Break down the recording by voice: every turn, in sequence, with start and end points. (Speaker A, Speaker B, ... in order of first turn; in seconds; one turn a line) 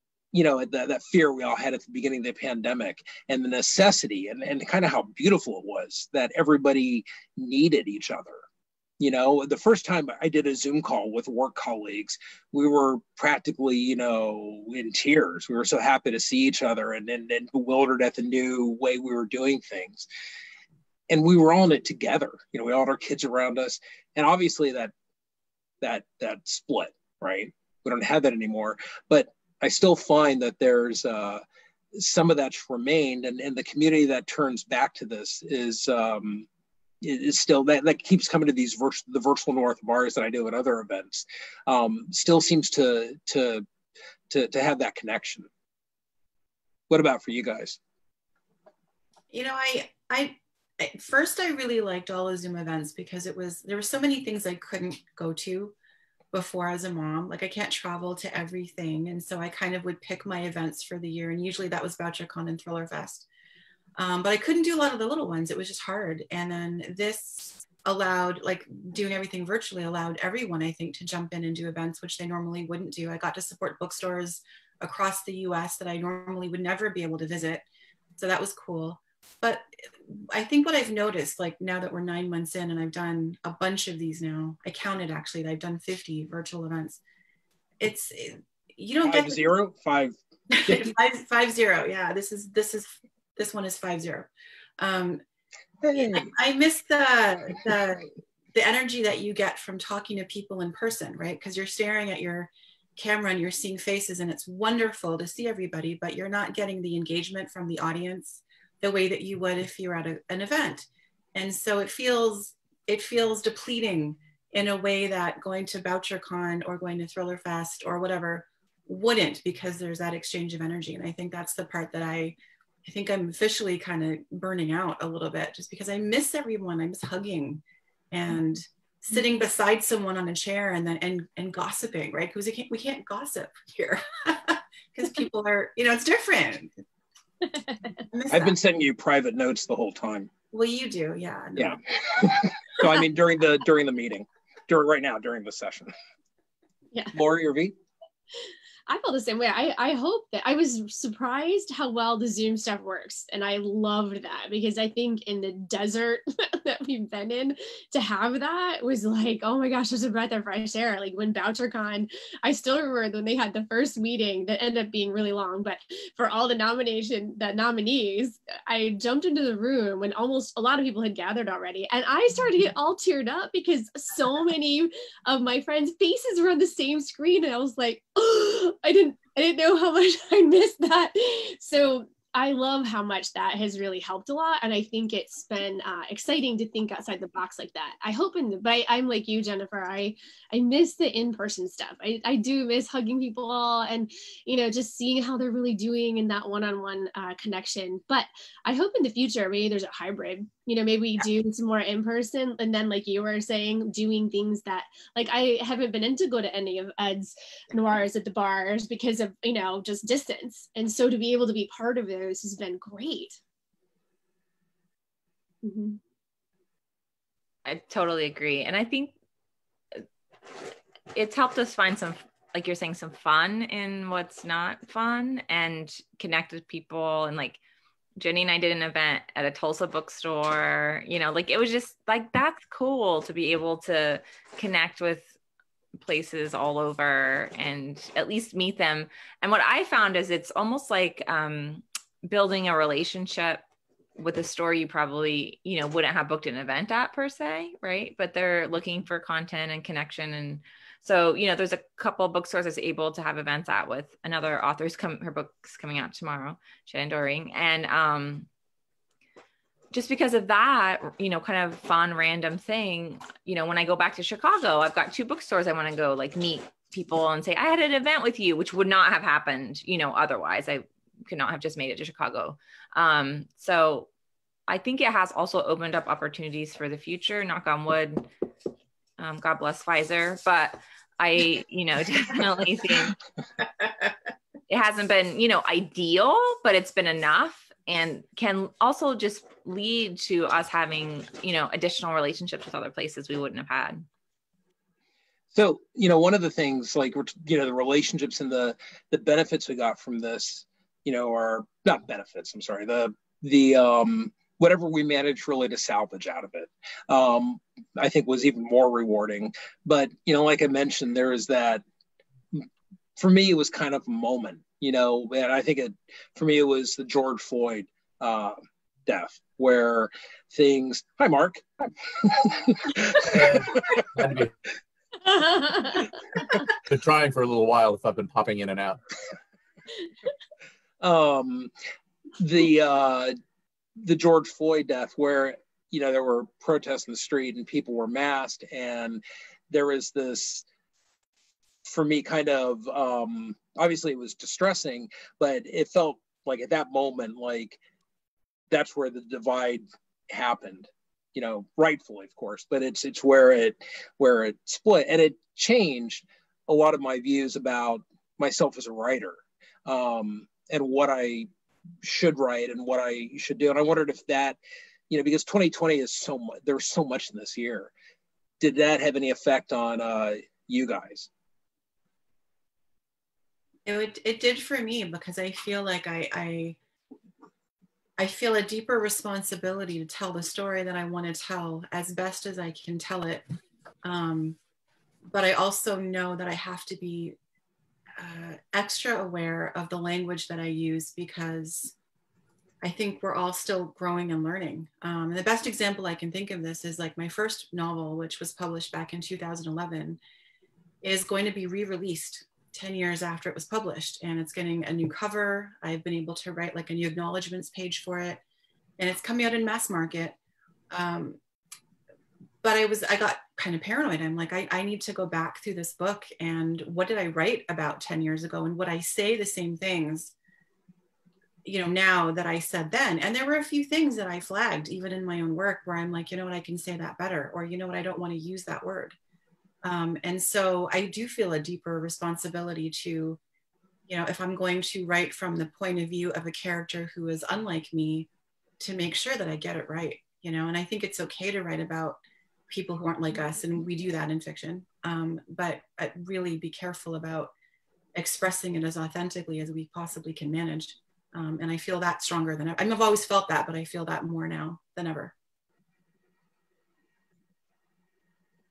Speaker A: 0.3-8.4
Speaker A: 9.0-20.1
Speaker A: 21.1-24.9
Speaker A: 25.8-31.4
Speaker A: 31.9-36.5
Speaker A: 37.0-43.7
Speaker A: 44.3-45.5
Speaker A: 46.9-47.8
Speaker B: 49.3-55.8
Speaker B: 56.3-63.3
Speaker B: 64.0-77.7
Speaker B: 78.2-87.0
Speaker B: 87.8-89.4
Speaker A: 89.0-90.2
Speaker B: 90.5-95.2
Speaker A: 90.7-90.9
Speaker A: 95.8-96.3
Speaker B: 96.0-136.8
Speaker C: 137.5-138.0
Speaker B: 138.1-138.6
Speaker A: 138.3-140.3
Speaker B: 140.5-142.5
Speaker A: 141.6-145.9
Speaker A: 147.1-147.7
Speaker C: 148.4-213.4
Speaker C: 215.6-216.0
Speaker D: 217.7-219.1
Speaker D: 221.1-227.6
Speaker D: 228.2-235.3
Speaker D: 236.0-243.6
Speaker D: 244.2-258.5
Speaker D: 259.9-274.1
Speaker D: 274.7-278.3
Speaker D: 279.2-283.2
Speaker D: 284.7-294.1
Speaker A: 295.5-311.8
Speaker A: 313.2-321.7
Speaker A: 322.2-323.8
Speaker E: 323.3-324.5
Speaker C: 325.3-326.1
Speaker E: 326.9-329.0
Speaker A: 331.0-331.7
Speaker A: 332.4-333.4
Speaker A: 334.0-340.6
Speaker A: 341.9-347.8
Speaker A: 348.7-361.5
Speaker A: 362.0-364.6
Speaker A: 365.1-367.9
Speaker A: 368.6-371.3
Speaker B: 373.9-376.8
Speaker B: 378.2-383.4
Speaker B: 384.0-384.6
Speaker B: 385.3-387.4
Speaker B: 388.2-391.9
Speaker B: 392.8-400.2
Speaker B: 401.0-408.4
Speaker B: 409.0-410.4
Speaker B: 410.9-411.4
Speaker B: 412.6-420.3
Speaker B: 421.6-429.2
Speaker B: 429.8-433.4
Speaker B: 434.1-438.3
Speaker B: 438.8-447.5
Speaker B: 448.1-455.3